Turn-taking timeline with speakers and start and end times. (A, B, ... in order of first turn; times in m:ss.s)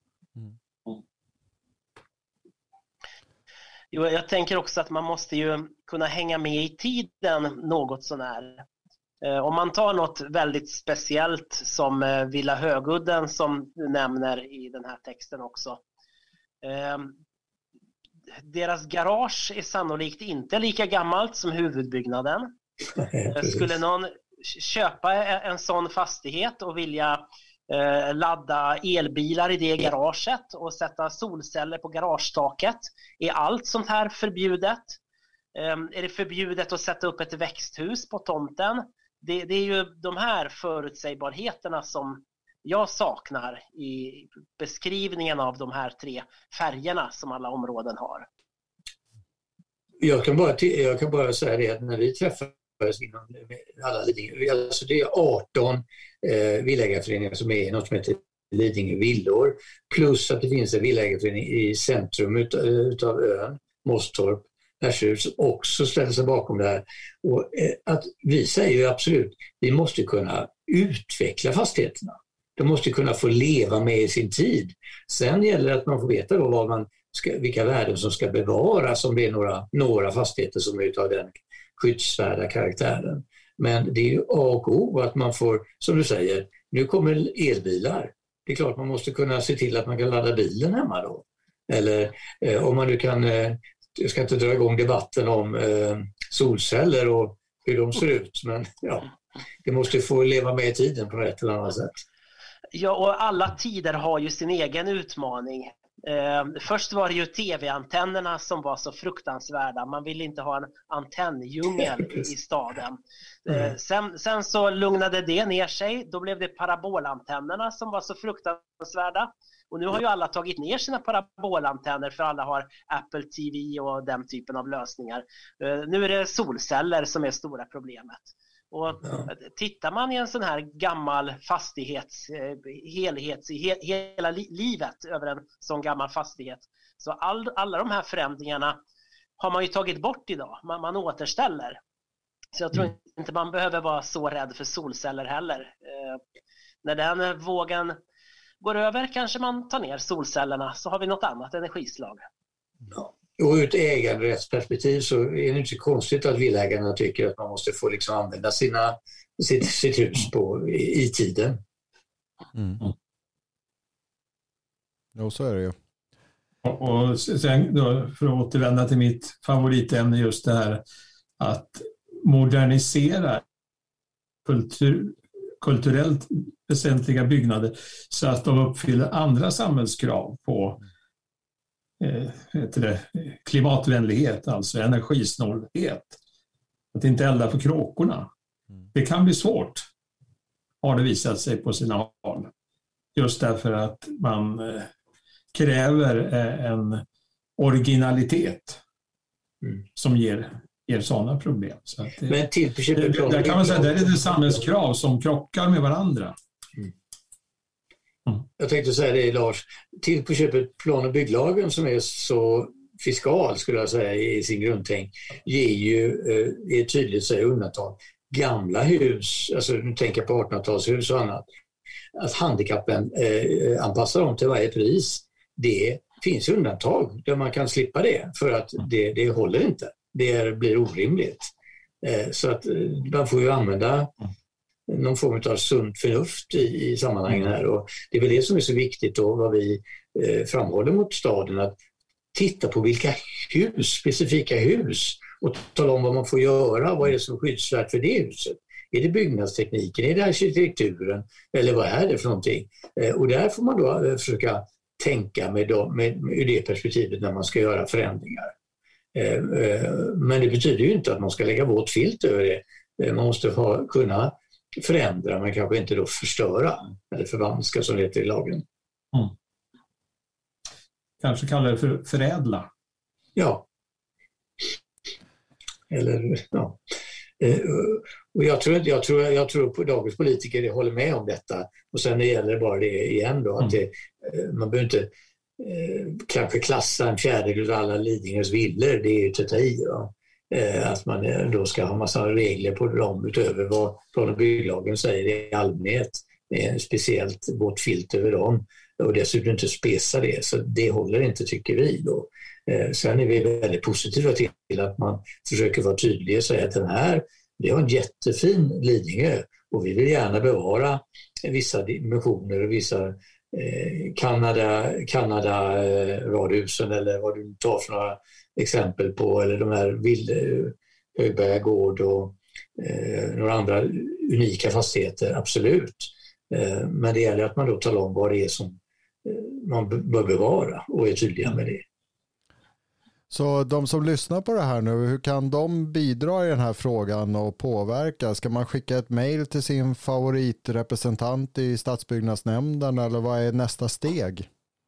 0:03.9-0:08.7 A
0:09.2-0:15.8 A
0:16.6-0:17.2 A
0:18.4-0:22.5 A
0:23.0-0:23.7 B
0:23.2-0:35.0 A
0:35.5-0:48.3 A
0:50.0-1:39.1 B
1:39.6-1:42.0 B
1:42.7-2:18.8 A
2:19.4-2:21.8 A
2:22.6-2:26.2 A
2:26.8-2:28.0 A
2:28.6-2:32.2 A
2:32.9-2:41.6 B
2:42.6-2:42.8 C
2:45.2-2:45.8 C
2:46.6-2:50.8 D
2:51.4-2:53.4 D
2:54.4-3:00.8 D
3:02.0-3:06.2 D
3:06.9-3:08.3 D
3:08.9-3:09.9 D
3:10.8-3:12.5 D
3:13.2-3:14.9 D
3:15.5-3:17.0 D
3:17.6-3:18.8 D
3:20.0-3:22.4 D
3:22.3-3:24.6 B
3:23.0-3:26.4 D
3:28.6-3:41.4 B
3:42.2-3:51.5 B
3:52.0-3:54.1 B
3:54.9-4:01.8 B
4:02.3-4:18.5 B
4:19.2-4:28.6 B
4:31.2-4:32.7 D
4:33.4-4:33.6 B
4:35.9-4:36.8 B
4:37.4-4:45.1 B
4:45.6-5:31.8 B
5:33.3-5:44.5 C